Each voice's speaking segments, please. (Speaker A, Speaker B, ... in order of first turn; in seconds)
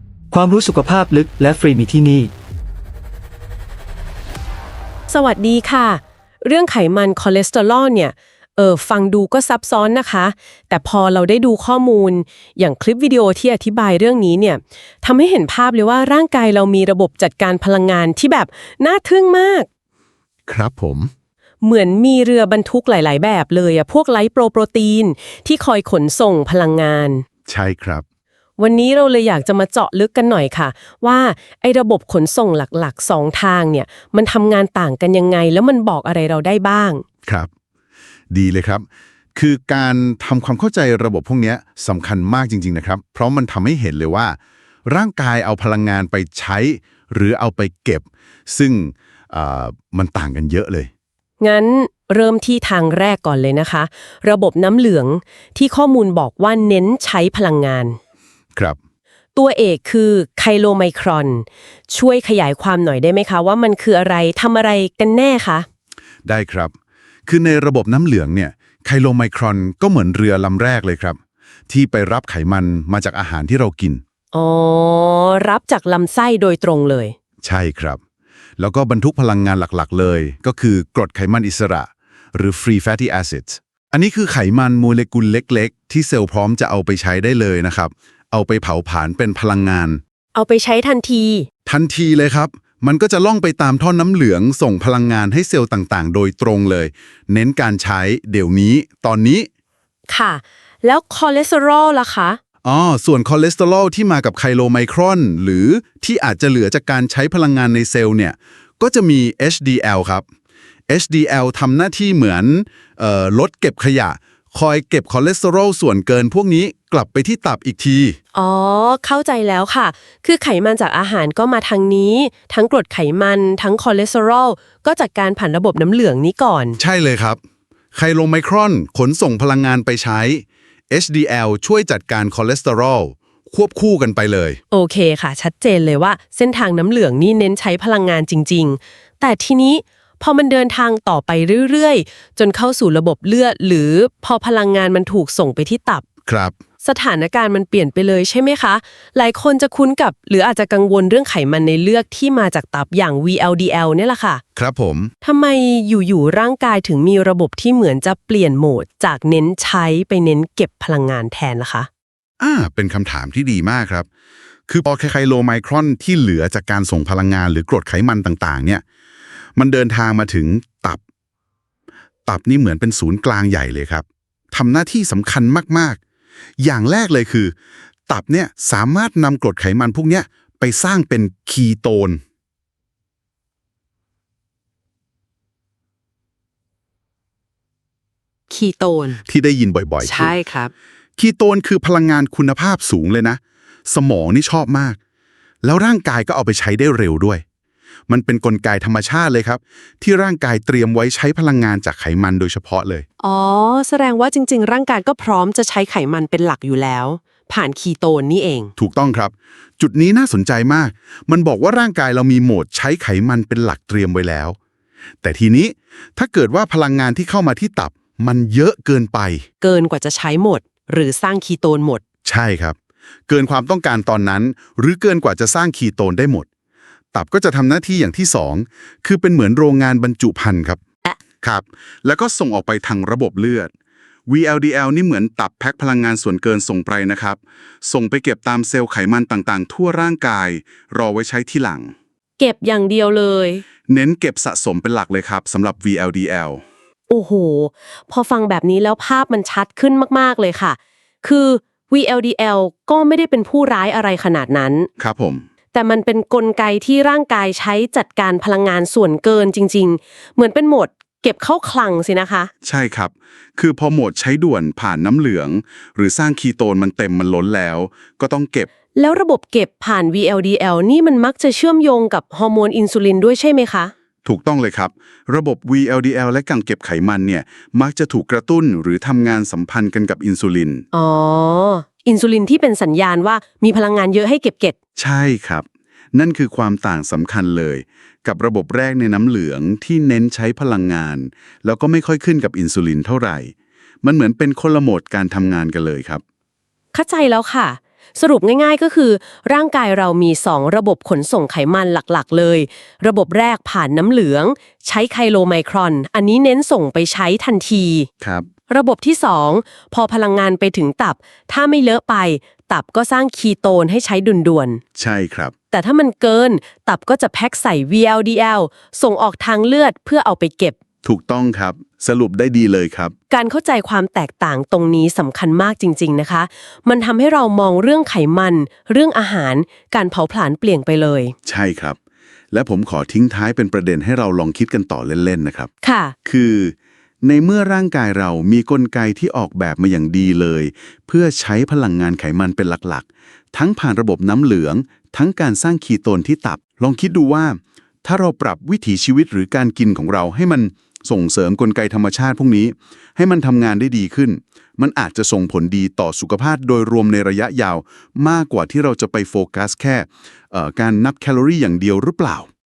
Speaker A: 0.3-2.3
Speaker B: 5.1-19.7, 21.6-27.2, 28.6-37.0, 51.4-58.0, 59.3-65.7, 74.3-77.2, 90.3-91.5, 100.1-102.4, 118.3-126.8, 134.7-146.0, 146.8-154.4, 155.2-161.9, 188.5-189.2, 190.0-190.7, 203.2-208.7, 219.6-222.0, 242.4-243.6, 247.1-254.9, 255.7-262.5, 268.9-273.9, 280.9-284.8, 296.9-308.1, 308.7-314.8, 315.7-320.8, 323.3-331.3, 335.8-336.1
Speaker C: 20.5-21.1, 27.5-28.0, 38.3-50.9, 66.2-66.7, 67.3-71.2, 71.7-74.0, 77.4-78.0, 78.6-90.0, 91.7-99.5, 102.6-110.2, 110.9-118.2, 126.8-127.4, 127.9-134.6, 146.2-146.5, 154.6-155.1, 162.4-164.1, 164.7-168.8, 169.6-171.0, 172.3-176.0, 176.6-177.5, 178.1-182.2, 189.3-190.3, 191.2-195.0, 195.6-197.4, 198.1-203.0, 208.8-214.6, 215.2-219.4, 222.2-222.8, 223.3-226.5, 227.1-230.8, 231.4-233.7, 234.3-241.9, 243.9-246.6, 255.0-255.4, 262.6-268.7, 274.2-280.8, 285.0-296.2, 308.2-308.5, 314.9-315.5, 321.0-323.1, 331.4-332.0, 332.5-335.7, 336.2-362.5